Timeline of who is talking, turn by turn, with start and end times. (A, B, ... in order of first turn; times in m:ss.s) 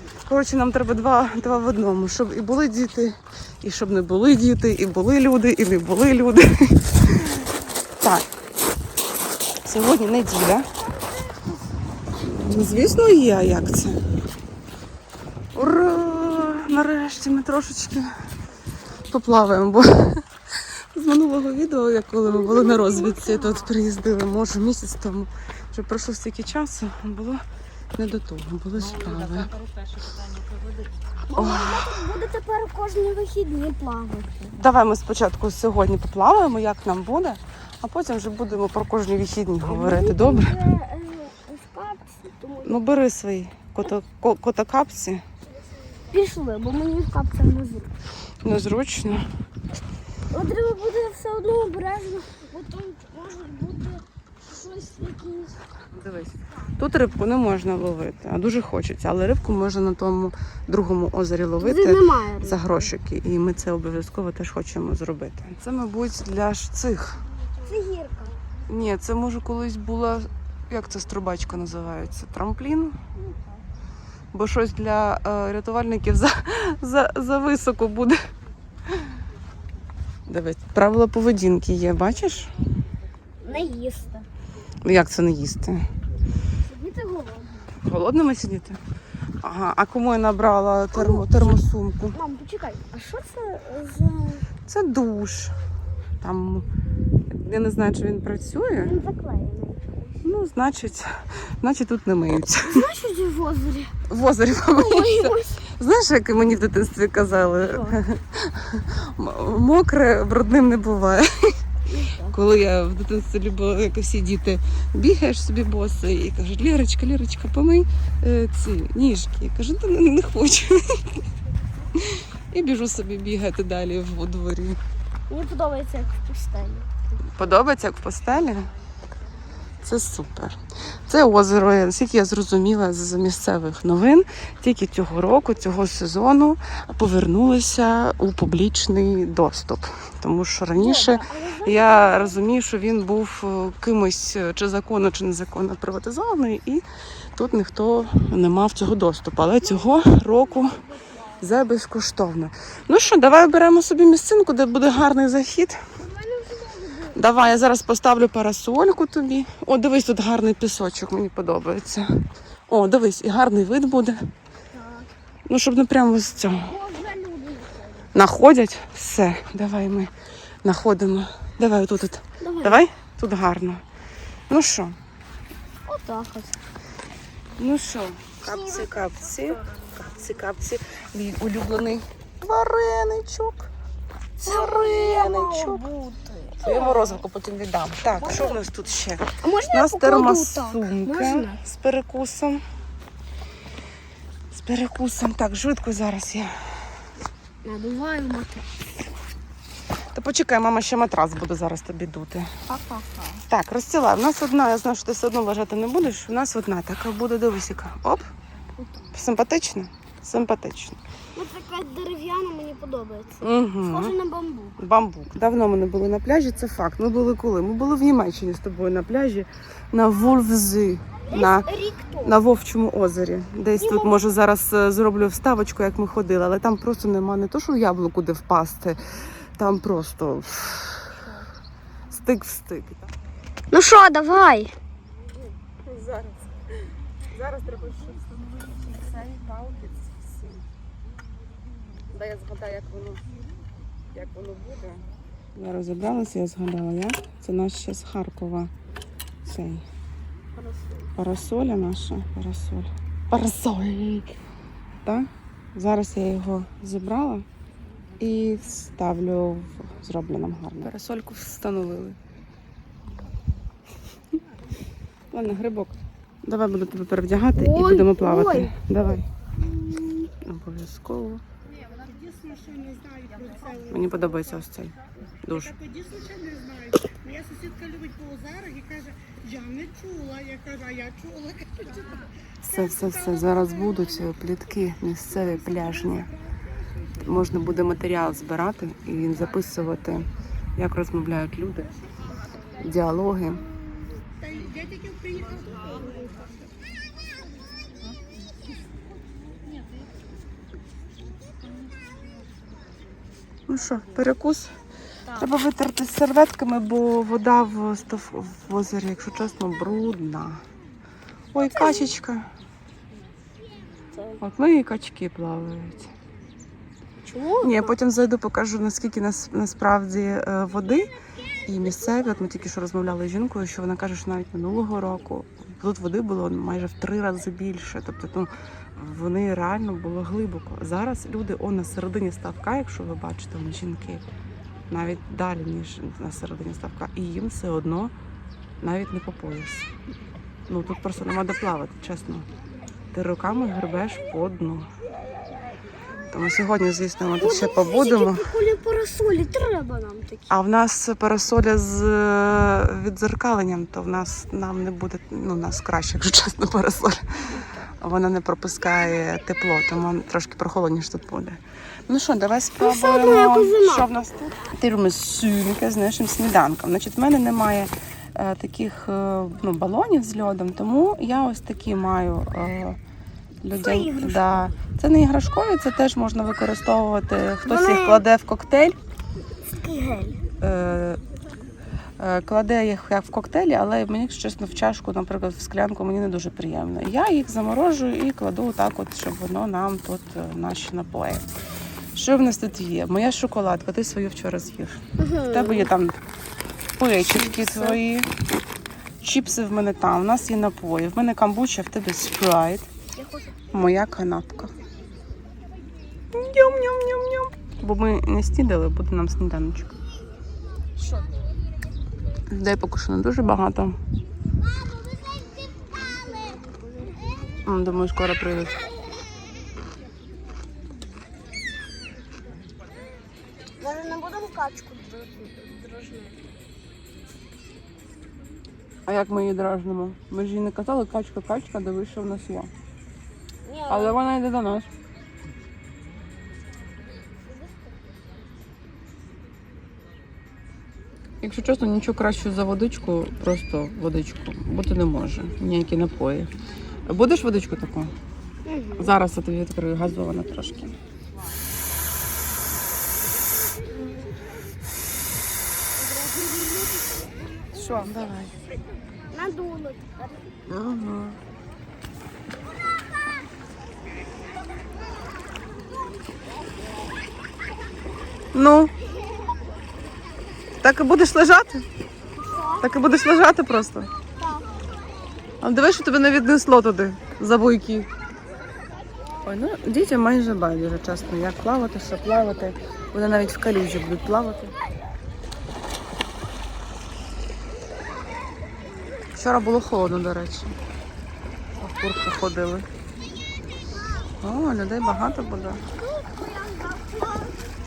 0:00.2-0:07.2 A
0:08.0-0:08.2 A
0:09.6-0:10.7 A
0:10.8-0:11.6 B
0:12.2-0:14.0 A
0:15.5-0:18.1 A
0:19.0-0:20.2 A
0:20.9-0:27.4 A
0:22.3-0:23.7 B
0:28.0-0:29.5 A
0:29.6-0:30.8 C
0:31.3-0:34.5 B
0:31.4-0:31.9 A
0:34.5-0:40.6 A
0:39.6-0:42.8 B
0:42.6-0:45.2 A
0:46.1-0:47.9 B
0:48.4-0:49.3 A
0:50.3-0:55.6 B
0:55.9-1:07.2 A
1:01.6-1:02.8 B
1:07.6-1:08.4 B
1:08.7-1:13.0 A
1:14.3-1:18.2 A
1:20.3-1:22.5 A
1:23.4-1:24.3 B
1:24.8-1:25.9 A
1:26.6-1:27.7 B
1:27.8-1:28.8 A
1:29.4-1:32.2 A
1:30.9-1:31.6 B
1:32.1-1:34.5 B
1:34.7-1:35.6 A
1:36.2-1:36.7 A
1:37.3-1:39.0 A
1:38.8-1:40.2 B
1:40.2-1:42.8 A
1:42.7-1:44.0 B
1:44.1-1:51.3 A
1:44.7-1:45.5 B
1:47.7-1:48.0 B
1:51.9-1:52.4 B
1:52.3-2:01.0 A
2:02.0-2:04.8 A
2:05.3-2:06.9 B
2:07.4-2:08.7 A
2:09.8-2:26.8 A
2:20.8-2:22.4 B
2:27.4-2:30.8 A
2:29.6-2:31.2 B
2:31.4-2:35.8 A
2:36.0-2:37.2 B
2:37.1-2:42.1 A
2:42.7-2:44.2 A
2:44.7-2:45.1 B
2:45.5-2:46.7 A
2:46.6-2:48.1 B
2:48.1-2:50.1 A
2:50.6-2:53.8 A
2:52.4-2:52.8 B
2:54.5-2:55.0 A
2:55.9-2:56.6 B
2:57.6-3:03.7 A
2:58.4-2:59.1 B
3:04.4-3:05.9 A
3:04.4-3:07.2 B
3:06.5-3:12.6 A
3:08.1-3:08.6 B
3:09.4-3:11.6 B
3:14.5-3:16.6 A
3:17.6-3:18.7 B
3:20.1-3:22.5 A
3:22.7-3:23.4 B
3:23.5-3:28.3 A
3:29.1-3:31.0 A
3:31.4-3:34.8 B
3:33.4-3:34.1 A
3:34.8-3:41.7 A
3:41.3-3:42.3 B
3:42.2-3:51.2 A
3:43.8-3:44.2 B
3:52.1-3:53.1 A
3:53.7-3:54.8 B
3:55.8-3:56.5 A
3:57.3-4:00.6 A
4:02.1-4:03.2 A
4:04.1-4:05.0 A
4:05.6-4:08.7 A
4:09.4-4:09.8 A
4:10.6-4:11.1 B
4:11.2-4:14.3 A
4:15.0-4:17.5 A
4:18.2-4:22.2 A
4:25.3-4:29.3 A
4:27.5-4:28.8 B
4:30.3-4:31.4 A
4:32.2-4:33.7 C
4:33.8-4:35.8 A
4:36.1-4:36.7 C
4:37.3-4:39.0 C
4:39.5-4:41.6 C
4:42.6-4:46.3 A
4:47.2-4:51.9 A
4:52.8-4:53.6 A
4:55.1-4:55.7 C
5:03.7-5:04.7 A
5:05.3-5:10.6 A
5:11.5-5:12.5 A
5:11.6-5:12.2 B
5:14.1-5:14.4 B
5:14.4-5:16.1 A
5:17.2-5:18.0 B
5:17.6-5:21.1 A
5:21.7-5:34.2 A
5:34.9-5:38.1 A
5:38.8-5:39.9 A
5:40.7-5:42.5 A
5:43.1-5:44.9 A
5:46.3-5:48.5 A
5:47.4-5:50.5 B
5:50.5-6:13.0 A
6:02.8-6:04.1 B
6:13.6-6:19.0 A
6:13.8-6:14.6 B
6:17.6-6:18.2 B
6:19.7-6:20.4 B
6:20.6-6:21.2 A
6:22.2-6:31.5 A
6:32.2-6:36.2 A
6:35.2-6:35.9 B
6:37.0-6:38.3 A
6:37.4-6:38.0 B
6:39.2-6:42.9 A
6:43.2-6:43.6 B
6:43.7-6:44.7 A
6:46.3-6:50.0 A
6:51.0-6:51.3 B
6:52.5-6:54.0 A
6:56.2-6:57.4 B
6:57.6-6:58.8 A
7:03.8-7:06.4 B
7:09.1-7:12.7 A
7:13.6-7:14.2 B
7:13.9-7:14.9 A
7:21.4-7:26.5 A
7:27.1-7:28.1 A
7:28.7-7:29.1 B
7:29.0-7:30.9 A
7:34.0-7:34.3 B
7:36.0-7:37.7 B
7:37.7-7:38.5 A
7:39.3-7:40.5 B
7:40.7-7:41.4 A
7:48.5-7:48.9 A
7:50.8-7:51.9 A
7:52.4-7:52.9 B
7:52.8-7:54.1 A
7:54.4-7:54.8 B
7:55.6-7:58.1 A
7:59.4-8:04.7 A
8:09.3-8:10.8 A
8:11.8-8:12.9 A
8:14.4-8:15.8 A
8:16.0-8:17.6 B